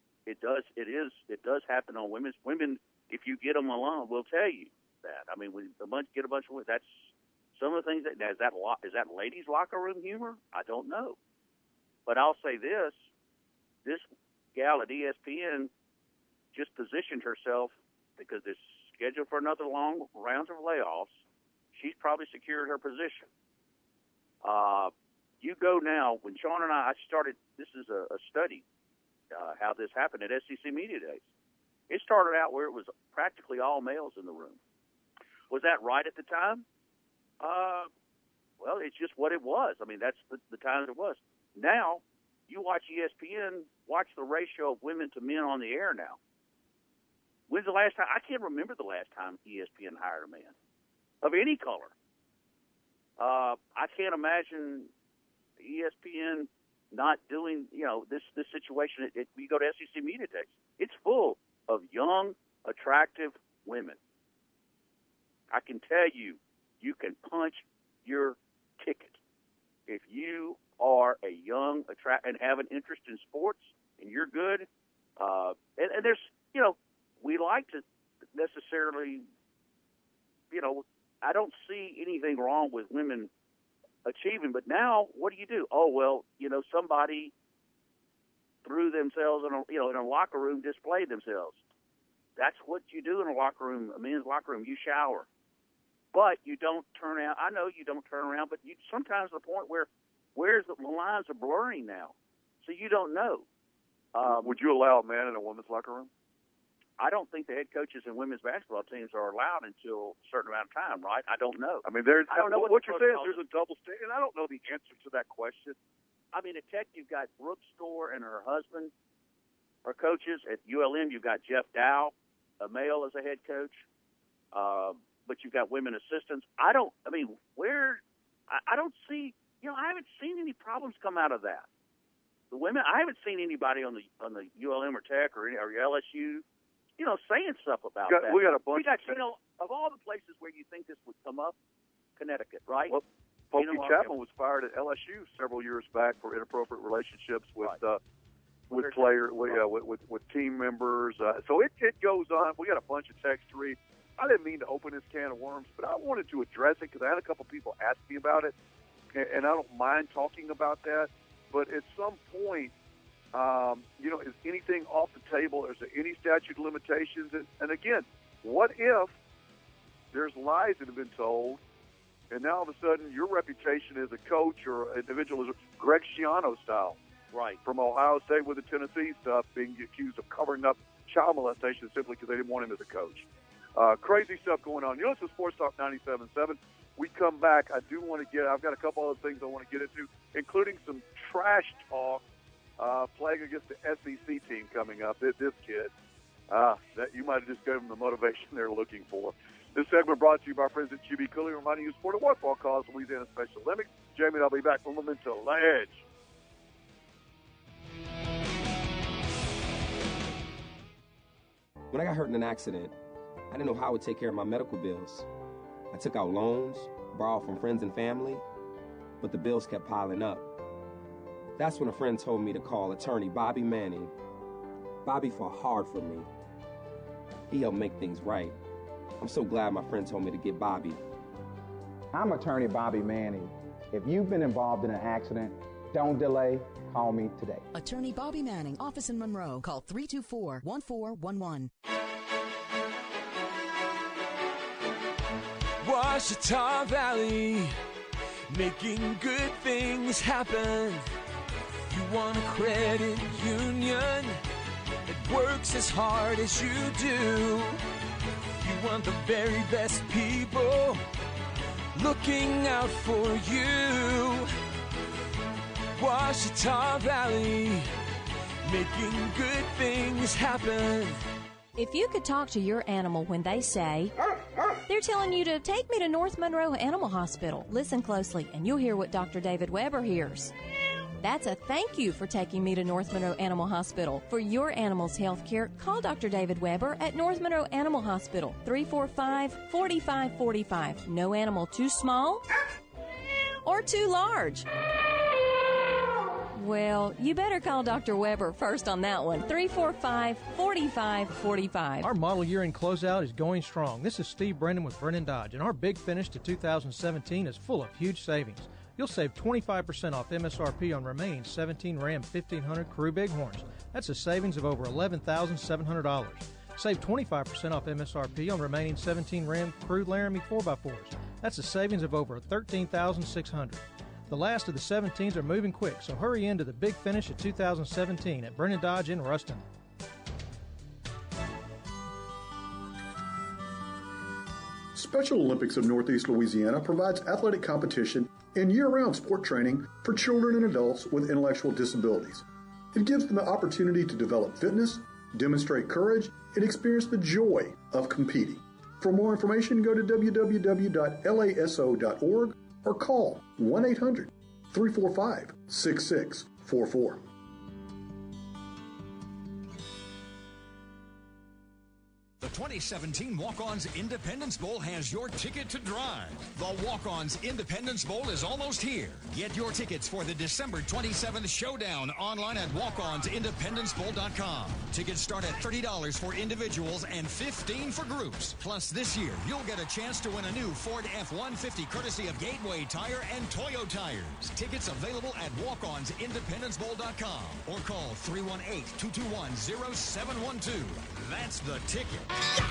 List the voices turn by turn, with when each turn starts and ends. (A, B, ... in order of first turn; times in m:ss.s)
0:00.2-0:11.2 A
0:12.0-0:13.0 A
0:13.8-0:15.7 A
0:16.5-0:21.2 A
0:21.7-0:23.3 A
0:24.4-0:28.6 A
0:29.3-0:31.2 A
0:31.9-0:34.6 A
0:35.5-0:36.6 A
0:37.4-0:37.9 A
0:38.6-0:46.2 A
0:47.5-0:50.5 A
0:51.2-0:51.9 A
0:53.2-0:54.9 A
0:55.6-1:04.0 A
1:05.5-1:09.2 A
1:09.9-1:14.7 A
1:15.2-1:17.8 A
1:18.3-1:19.2 A
1:20.5-1:23.3 A
1:24.0-1:27.3 A
1:28.6-1:31.6 A
1:32.4-1:35.3 A
1:36.1-1:43.5 A
1:44.1-1:44.6 A
1:44.2-1:46.1 B
1:47.0-1:53.4 A
1:51.8-1:55.8 B
1:56.3-1:58.9 A
1:59.8-2:03.8 A
2:04.5-2:11.7 A
2:12.5-2:16.4 A
2:17.0-2:21.6 A
2:18.1-2:19.2 B
2:22.2-2:23.0 A
2:22.9-2:28.0 B
2:23.6-2:24.1 A
2:28.7-2:29.6 A
2:28.7-2:38.5 B
2:39.1-2:42.7 B
2:43.3-2:49.1 B
2:50.1-2:51.6 B
2:52.3-2:57.0 B
2:57.3-2:57.6 A
2:57.6-3:12.2 B
3:12.8-3:15.9 B
3:16.5-3:26.0 B
3:31.9-3:32.9 C
3:33.5-3:35.3 C
3:35.9-3:38.4 C
3:39.2-3:40.5 C
3:41.6-3:44.1 C
3:45.0-3:46.3 C
3:47.5-3:48.6 C
3:49.2-3:51.0 C
3:52.1-3:57.7 D
3:57.7-4:01.7 E
4:05.8-4:07.7 F
4:08.5-4:11.0 F
4:11.9-4:14.4 F
4:15.0-4:17.8 F
4:18.6-4:21.0 F
4:22.0-4:24.5 F
4:26.0-4:27.9 F
4:28.6-4:31.1 F
4:31.8-4:34.1 G
4:34.9-4:40.5 G
4:41.2-4:52.4 G
4:53.6-4:54.6 G
4:56.5-5:02.1 G
5:02.0-5:29.6 H
5:34.9-5:57.2 I
6:02.4-6:32.3 J